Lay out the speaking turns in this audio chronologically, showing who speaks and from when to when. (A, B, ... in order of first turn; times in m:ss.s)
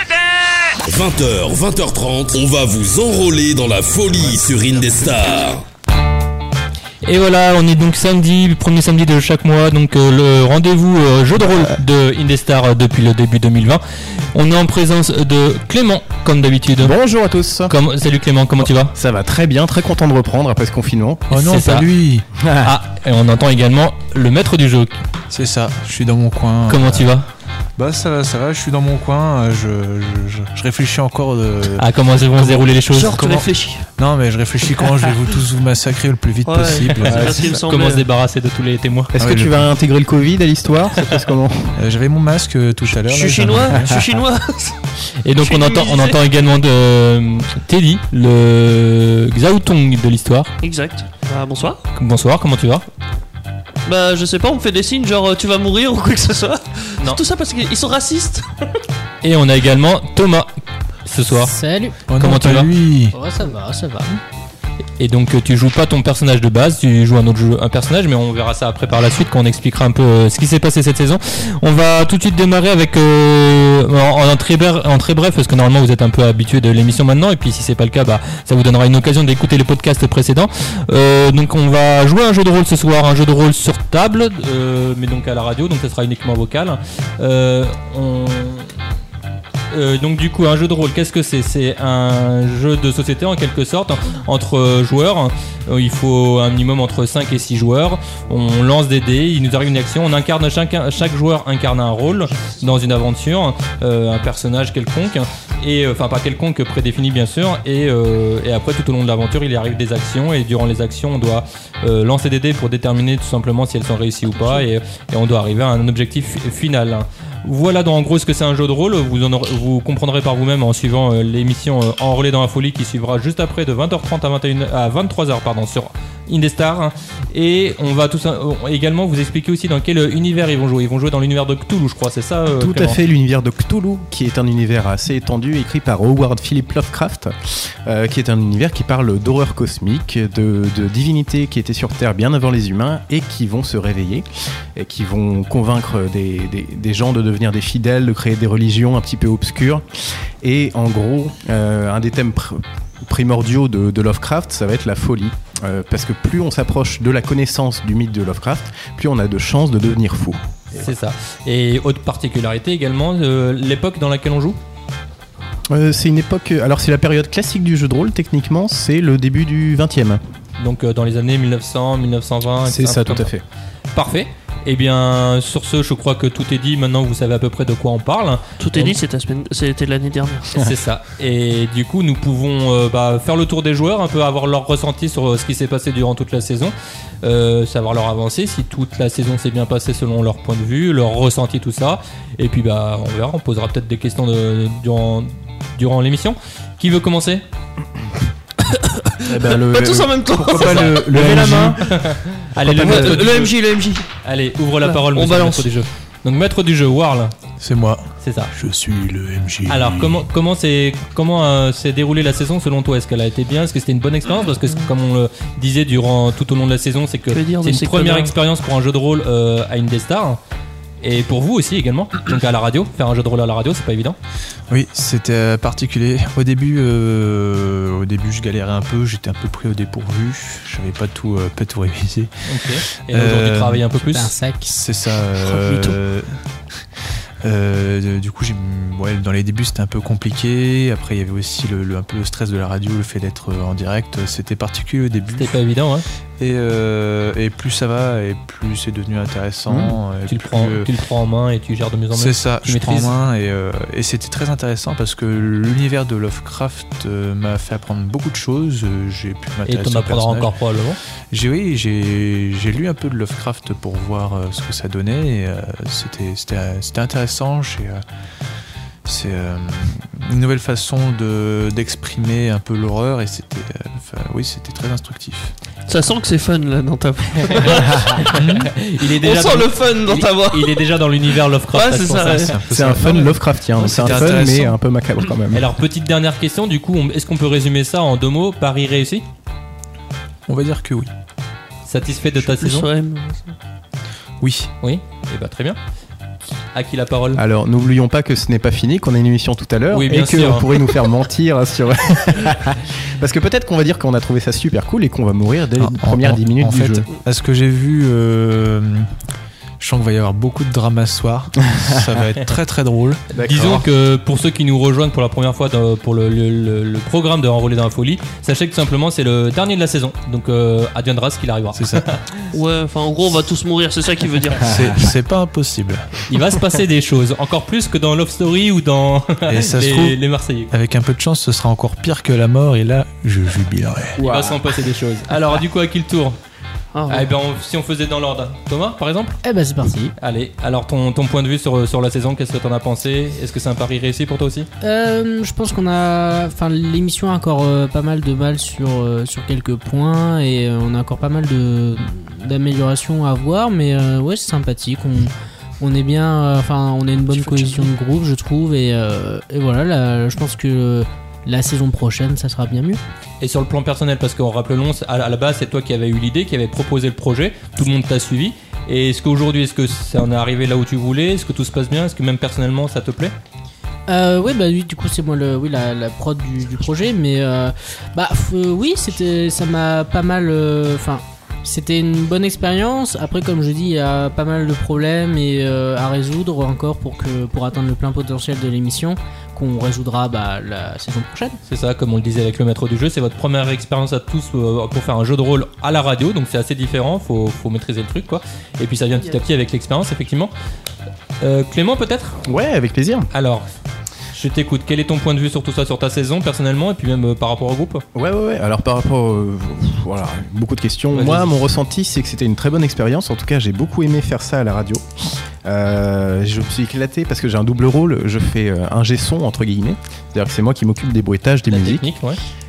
0:00.8-0:05.6 A
0:07.0-0:13.8 B
0:14.3-0:16.9 B
0:16.8-0:17.8 C
0:17.7-0:18.9 B
0:18.9-0:21.3 C
0:21.3-0:22.2 D
0:21.3-0:21.9 B
0:22.4-0:22.8 C
0:22.6-0:24.9 B
0:25.3-0:27.1 D
0:26.7-0:27.3 B
0:27.8-0:31.9 D
0:31.8-0:33.2 B
0:32.9-0:33.9 E
0:33.2-0:37.3 D
0:36.4-0:38.0 E
0:37.1-0:37.6 C
0:37.4-0:39.1 B
0:39.1-0:41.8 C
0:39.2-0:39.6 D
0:41.8-0:44.0 D
0:42.9-0:44.8 E
0:45.2-0:50.5 B
0:45.4-0:46.2 E
0:50.6-0:51.8 E
0:52.0-0:52.8 B
0:53.8-0:58.5 E
0:59.2-1:00.5 B
1:01.0-1:01.5 B
1:01.3-1:02.0 F
1:02.1-1:03.1 D
1:02.2-1:02.7 B
1:03.1-1:04.2 F
1:05.0-1:28.7 B
1:29.7-2:13.0 B
1:54.3-1:54.6 E
2:12.5-2:29.8 C
2:30.4-2:40.9 C
2:40.7-2:44.6 B
2:45.7-2:50.2 C
2:50.6-2:53.3 B
2:52.6-2:53.4 C
2:53.9-2:59.0 B
2:58.6-3:00.7 E
3:00.6-3:17.4 B
3:18.6-3:21.7 E
3:19.2-3:21.8 C
3:21.1-3:21.7 D
3:21.8-3:23.5 B
3:22.5-3:23.2 C
3:22.7-3:24.0 E
3:24.2-3:27.3 B
3:24.8-3:25.7 E
3:27.6-3:30.2 D
3:28.2-3:28.5 B
3:29.7-3:40.4 B
3:37.3-3:38.3 E
3:41.0-3:44.2 B
3:44.7-3:53.9 D
3:52.5-3:54.3 B
3:54.1-3:54.7 F
3:54.6-3:56.4 D
3:55.4-3:56.0 E
3:57.4-4:05.6 D
4:05.4-4:06.0 B
4:06.4-4:10.9 D
4:09.7-4:10.0 C
4:10.3-4:13.1 B
4:12.1-4:20.5 D
4:19.6-4:21.0 B
4:21.3-4:28.0 D
4:29.0-4:35.5 D
4:35.9-4:38.3 E
4:37.5-4:42.5 B
4:38.3-4:38.7 D
4:39.0-4:42.5 E
4:42.4-4:44.8 D
4:42.7-4:45.6 C
4:45.5-4:49.2 B
4:50.5-4:51.1 D
4:51.9-4:52.9 B
4:52.4-4:53.6 E
4:54.4-4:54.7 D
4:54.8-4:55.8 B
4:56.7-4:57.4 B
4:57.3-5:07.0 C
4:59.9-5:00.8 B
5:05.8-5:09.1 D
5:09.8-5:13.8 D
5:13.3-5:13.8 C
5:13.4-5:22.4 B
5:21.7-5:22.2 D
5:22.5-5:24.8 E
5:24.6-5:26.3 D
5:26.3-5:30.7 B
5:29.5-5:34.2 D
5:34.2-5:36.4 B
5:34.2-5:34.6 C
5:36.9-5:37.3 E
5:37.1-5:39.4 B
5:39.4-5:40.1 F
5:40.2-5:44.7 B
5:44.8-6:03.0 F
5:57.3-5:57.9 E
6:03.4-6:13.3 B
6:14.1-6:31.6 F
6:31.7-6:40.5 B
6:41.4-6:42.4 B
6:42.4-6:43.3 C
6:43.3-6:43.7 B
6:44.3-6:48.0 B
6:48.1-6:55.0 C
6:51.1-6:51.6 B
6:55.6-7:02.1 C
7:01.7-7:02.4 B